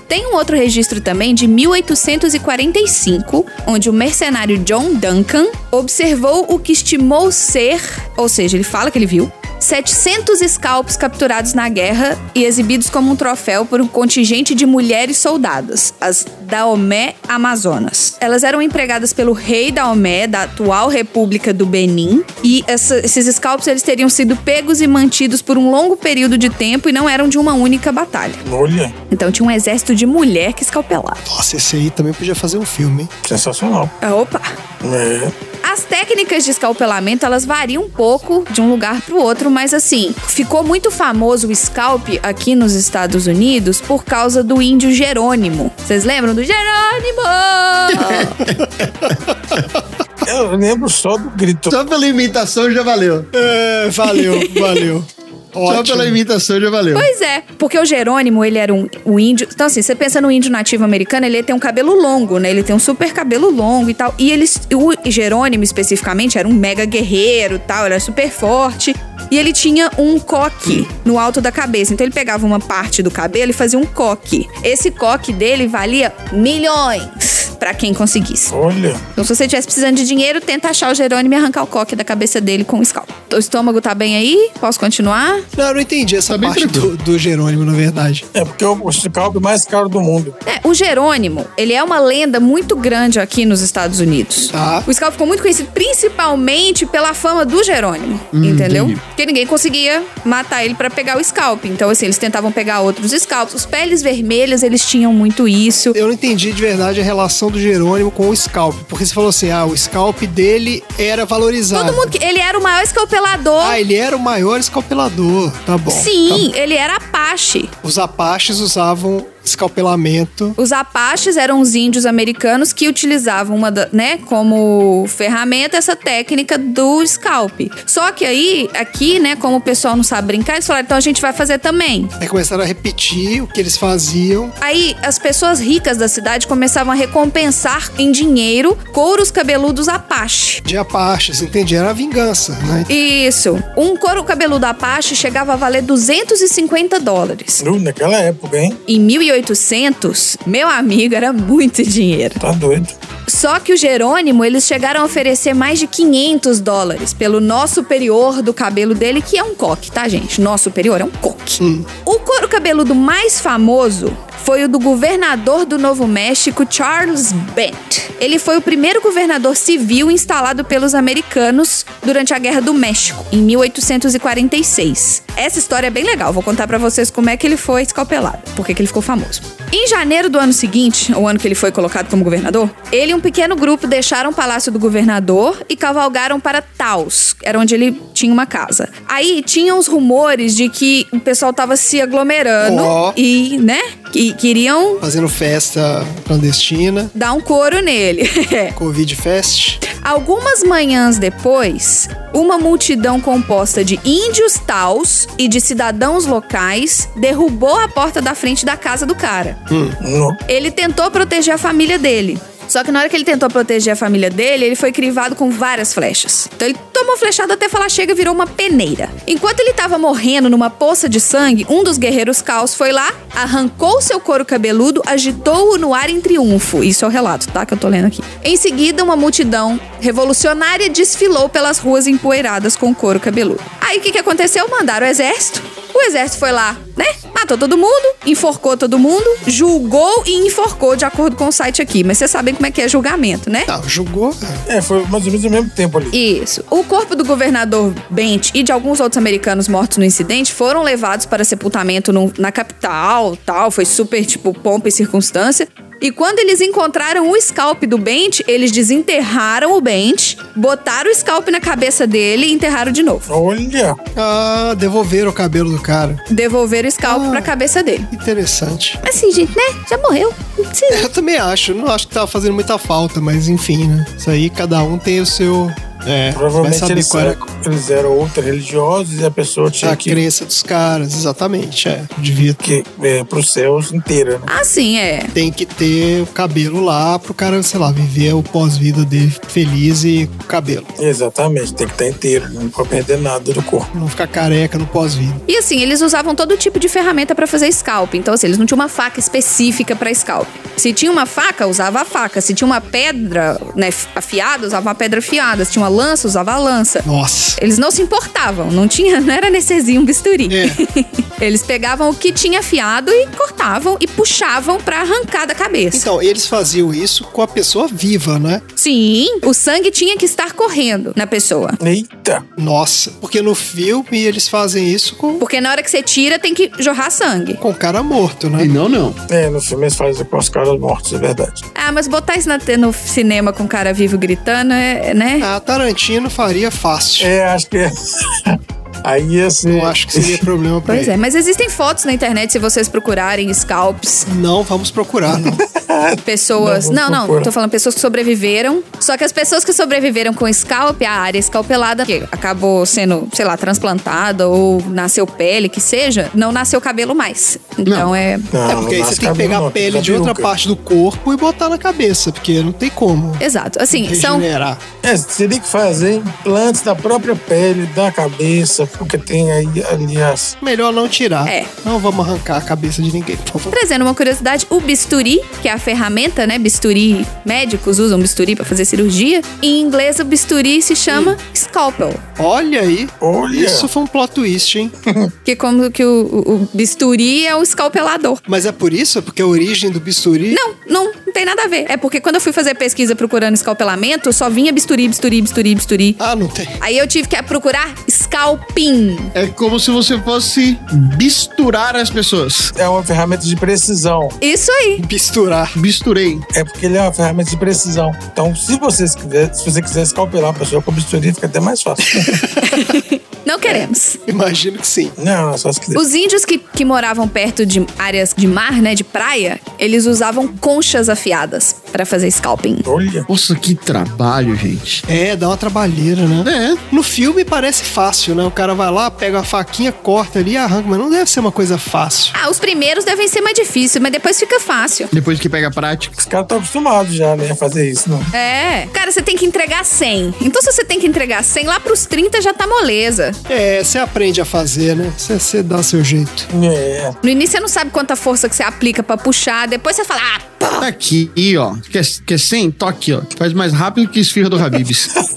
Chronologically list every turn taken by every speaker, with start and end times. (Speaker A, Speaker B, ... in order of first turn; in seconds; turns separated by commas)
Speaker A: 0.1-28.4, Speaker B: 28.4-28.9, Speaker A: 29.1-31.2, Speaker C: 31.2-33.1, Speaker B: 33.2-33.9, Speaker A: 34.0-34.5, Speaker B: 34.8-35.3, Speaker A: 35.6-48.4, Speaker D: 47.9-49.1, Speaker C: 48.8-49.8, Speaker B: 50.2-51.8, Speaker D: 51.7-53.3, Speaker C: 53.3-56.2, Speaker A: 54.2-54.8, Speaker D: 55.7-57.1, Speaker A: 56.9-78.5, Speaker B: 78.5-79.0, Speaker A: 79.1-85.5, Speaker C: 85.5-88.2, Speaker D: 86.3-86.9, Speaker B: 88.3-90.3, Speaker A: 90.5-106.0, Speaker C: 94.5-94.9, Speaker D: 98.3-99.0, Speaker C: 105.9-112.1, Speaker A: 111.7-113.8, Speaker C: 113.6-116.5, Speaker A: 115.9-117.7, Speaker C: 117.8-120.6, Speaker A: 120.6-132.1, Speaker C: 132.2-134.5, Speaker A: 134.6-140.6, Speaker C: 140.6-142.9, Speaker A: 142.9-147.6, Speaker B: 147.6-148.8, Speaker A: 148.9-152.4, Speaker B: 152.4-152.9, Speaker A: 153.3-195.0, Speaker C: 161.6-161.9, Speaker C: 192.6-193.2, Speaker C: 195.0-197.1, Speaker A: 197.1-198.8, Speaker C: 198.8-199.8, Speaker A: 199.9-209.6, Speaker C: 209.7-210.0, Speaker B: 210.0-210.4, Speaker A: 210.5-243.7, Speaker C: 243.7-244.6, Speaker B: 244.7-246.1, Speaker A: 246.1-263.3, Speaker B: 263.3-264.0, Speaker C: 264.1-266.2, Speaker A: 266.3-268.1, Speaker C: 267.0-267.5, Speaker C: 268.1-269.0, Speaker A: 269.0-271.1, Speaker C: 270.9-277.4, Speaker B: 276.3-280.2, Speaker C: 279.8-282.6, Speaker B: 282.6-284.5, Speaker A: 284.5-285.3, Speaker C: 285.3-290.9, Speaker B: 291.0-293.9, Speaker C: 293.9-295.4, Speaker A: 295.5-307.0, Speaker C: 307.0-307.6, Speaker A: 307.6-316.1, Speaker C: 310.5-310.8, Speaker C: 315.9-318.6, Speaker A: 318.8-321.8, Speaker B: 321.8-322.4, Speaker C: 322.6-325.4, Speaker A: 325.4-327.6, Speaker C: 327.6-328.7, Speaker D: 328.6-329.2, Speaker B: 329.3-331.6, Speaker A: 331.8-335.5, Speaker C: 335.4-337.3, Speaker B: 337.2-340.4, Speaker C: 339.6-341.1, Speaker A: 340.9-344.3, Speaker C: 344.2-345.6, Speaker B: 345.5-347.5, Speaker A: 346.2-358.5, Speaker B: 358.5-360.5, Speaker C: 358.6-364.8, Speaker A: 363.4-364.5, Speaker B: 365.0-370.6, Speaker C: 370.6-373.7, Speaker A: 373.7-382.2, Speaker C: 381.1-381.4, Speaker C: 382.4-384.9, Speaker B: 383.2-383.9, Speaker A: 385.4-388.4, Speaker C: 388.5-390.6, Speaker A: 390.5-396.2, Speaker C: 396.2-396.8, Speaker A: 396.8-399.3, Speaker D: 399.3-402.7, Speaker B: 402.8-404.4, Speaker A: 404.4-405.0, Speaker C: 405.0-405.8, Speaker D: 405.7-406.4, Speaker B: 406.5-412.4, Speaker C: 412.1-412.6, Speaker A: 412.6-414.2, Speaker C: 413.6-415.1, Speaker B: 415.2-416.0, Speaker A: 415.9-422.8, Speaker B: 422.9-423.3, Speaker D: 423.3-425.0, Speaker C: 425.1-432.3, Speaker D: 426.4-426.8, Speaker A: 432.3-435.1, Speaker D: 435.1-436.1, Speaker B: 436.2-438.3, Speaker A: 438.3-443.4, Speaker C: 443.5-446.5, Speaker B: 446.5-447.2, Speaker A: 447.2-450.9, Speaker D: 450.8-455.1